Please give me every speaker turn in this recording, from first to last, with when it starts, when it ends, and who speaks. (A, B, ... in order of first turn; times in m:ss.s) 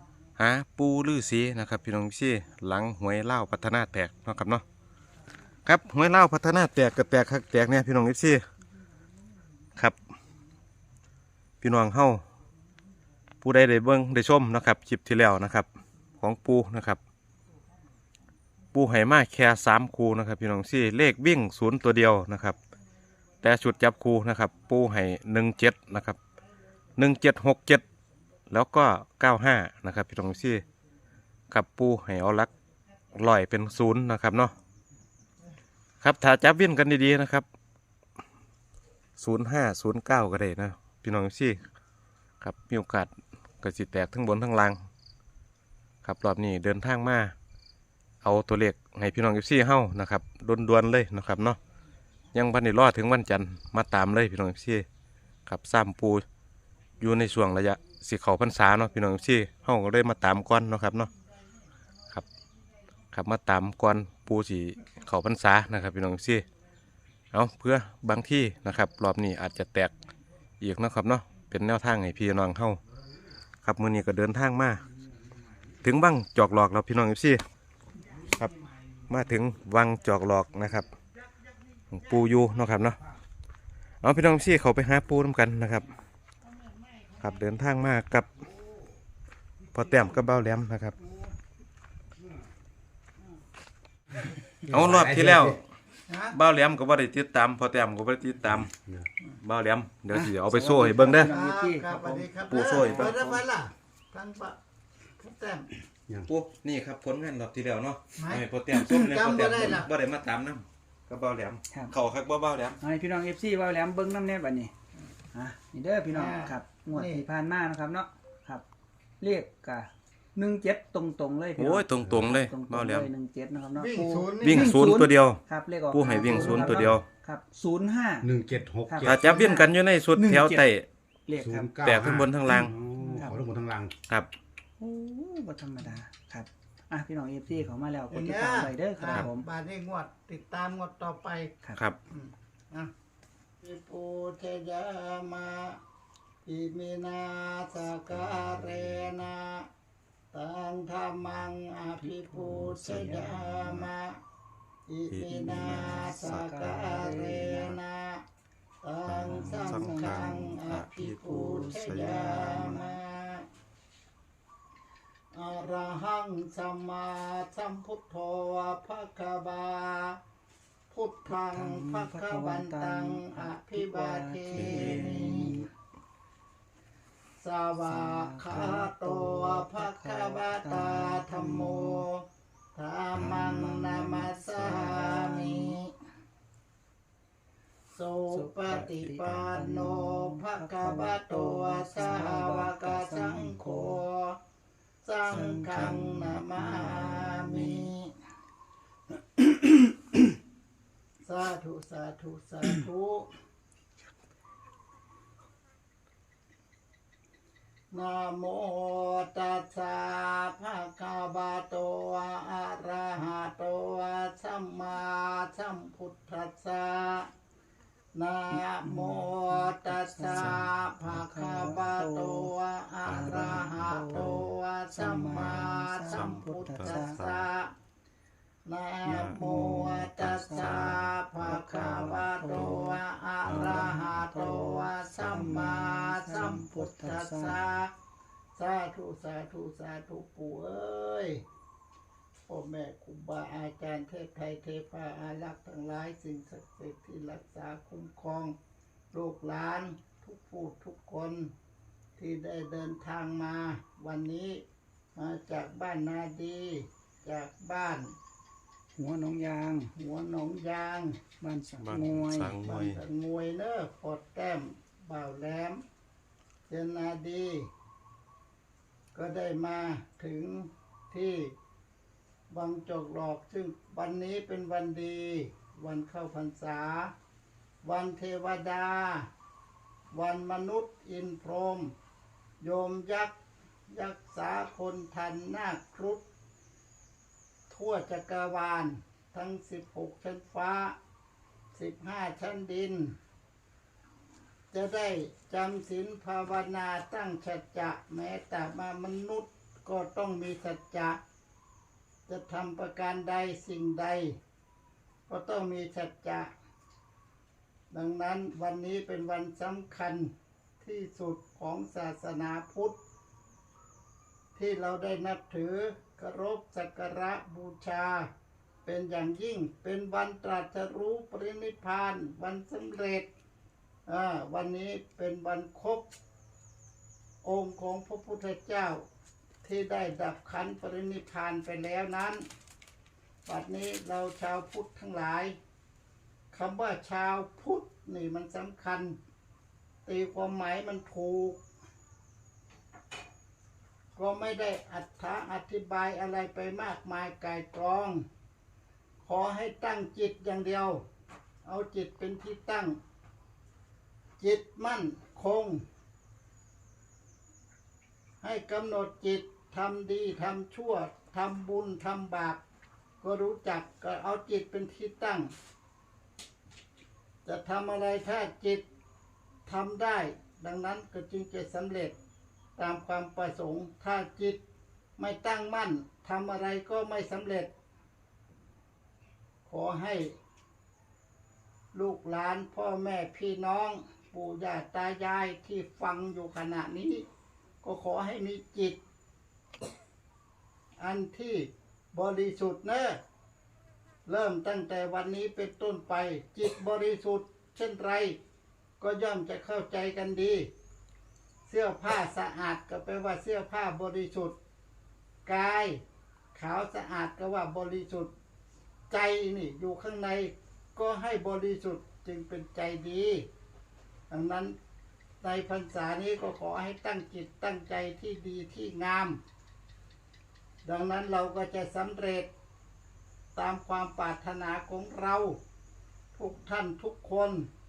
0:00.4-0:04.6 A
0:05.6-0:08.4 A
0:11.6-0:12.2 A
0:13.4-0:15.7 A
0:16.2-0:17.0 A
0:18.7-0:22.6 A
0:23.4-0:26.2 A
0:27.0-0:27.8 A
0:28.5-0:30.6 A
0:31.5-0:32.5 A
0:33.1-0:34.6 A
0:36.0-0:37.5 A
0:39.2-0:41.6 A
0:42.4-0:44.8 A
0:46.0-0:47.3 A
0:48.2-0:51.6 A
0:52.3-0:54.8 A
0:55.5-0:56.2 A
0:57.0-1:01.1 A
1:03.1-1:06.5 A
1:07.3-1:09.9 A
1:10.6-1:12.8 A
1:13.6-1:14.8 A
1:15.8-1:17.4 A
1:19.1-1:20.9 A
1:21.9-1:23.0 A
1:24.0-1:25.9 A
1:27.2-1:28.3 A
1:29.7-1:31.0 A
1:34.7-1:35.6 A
1:34.7-1:35.6 B
1:36.1-1:36.4 C
1:36.3-1:38.7 A
1:38.6-1:39.1 B
1:39.3-1:41.3 A
1:40.1-1:43.4 D
1:41.3-1:44.6 C
1:42.5-1:43.3 A
1:45.2-1:45.7 C
1:46.3-1:52.8 A
1:48.2-1:49.9 C
1:52.8-1:54.7 D
1:55.3-1:58.6 D
1:56.1-1:57.3 C
1:59.2-2:10.7 D
2:01.6-2:03.1 A
2:03.8-2:04.8 C
2:04.4-2:07.0 A
2:06.2-2:07.0 B
2:08.2-2:09.6 B
2:09.0-2:10.9 A
2:11.3-2:11.8 D
2:11.4-2:13.9 B
2:11.8-2:12.8 A
2:13.1-2:13.5 D
2:14.8-2:19.4 D
2:18.1-2:21.5 C
2:22.1-2:22.9 C
2:23.6-2:25.8 C
2:26.4-2:29.7 C
2:30.3-2:34.2 C
2:32.0-2:33.3 D
2:32.7-2:33.9 A
2:34.9-2:38.2 C
2:35.1-2:37.5 A
2:35.3-2:37.8 D
2:38.8-2:43.4 C
2:39.1-2:42.8 A
2:39.2-2:40.8 D
2:41.4-2:43.0 D
2:45.3-2:50.2 C
2:50.9-2:55.6 C
2:51.3-2:55.7 D
2:54.6-2:55.6 B
2:57.4-3:05.9 C
2:57.8-3:02.1 D
3:03.2-3:05.8 D
3:03.3-3:03.8 A
3:07.9-3:14.4 C
3:08.3-3:14.0 D
3:15.0-3:18.1 C
3:15.3-3:17.9 D
3:15.5-3:15.9 A
3:21.2-3:23.3 C
3:27.9-3:37.3 C
3:38.2-3:47.7 C
3:38.5-3:42.5 D
3:40.3-3:40.7 A
3:43.1-3:44.5 A
3:43.1-3:47.2 D
3:45.2-3:47.5 A
3:48.7-3:57.9 C
3:49.1-3:52.8 A
3:49.1-3:57.6 D
3:53.4-3:54.2 A
3:55.2-3:55.8 A
3:56.3-3:57.8 A
3:58.6-4:01.4 C
4:02.5-4:08.6 C
4:09.1-4:11.5 C
4:12.2-4:14.6 C
4:15.2-4:18.1 C
4:19.0-4:19.9 D
4:20.0-4:21.2 C
4:21.4-4:22.6 D
4:21.8-4:23.0 A
4:22.6-4:25.8 C
4:26.7-4:27.7 C
4:29.1-4:31.6 C
4:32.5-4:37.1 C
4:37.8-4:39.3 C
4:40.1-4:42.0 C
4:42.6-4:43.4 C
4:43.9-4:46.2 C
4:47.7-4:51.0 C
4:51.7-4:53.2 C
4:54.7-5:01.2 C
5:02.3-5:04.4 C
5:05.3-5:06.5 C
5:07.9-5:13.0 C
5:14.6-5:18.3 C
5:18.8-5:23.3 C
5:24.1-5:26.1 C
5:27.4-5:29.0 C
5:29.6-5:32.4 C
5:33.5-5:35.6 C
5:36.5-5:39.2 C
5:40.0-5:41.6 C
5:44.2-5:48.3 C
5:49.2-5:51.0 C
5:51.6-5:53.0 C
5:54.4-5:55.9 C
5:58.4-6:02.6 C
6:03.2-6:05.6 C
6:07.4-6:08.8 C
6:09.7-6:12.2 C
6:12.8-6:14.6 C
6:15.2-6:17.7 C
6:19.7-6:20.4 C
6:21.9-6:27.3 C
6:27.8-6:29.0 C
6:31.0-6:33.2 C
6:34.3-6:38.4 C
6:39.0-6:40.7 C
6:41.7-6:44.6 C
6:45.5-6:46.0 C
6:46.6-6:48.3 C
6:49.1-6:53.5 C
6:54.3-6:54.8 C
6:55.4-6:59.4 C
7:00.8-7:02.5 C
7:03.6-7:05.6 C
7:06.3-7:07.7 C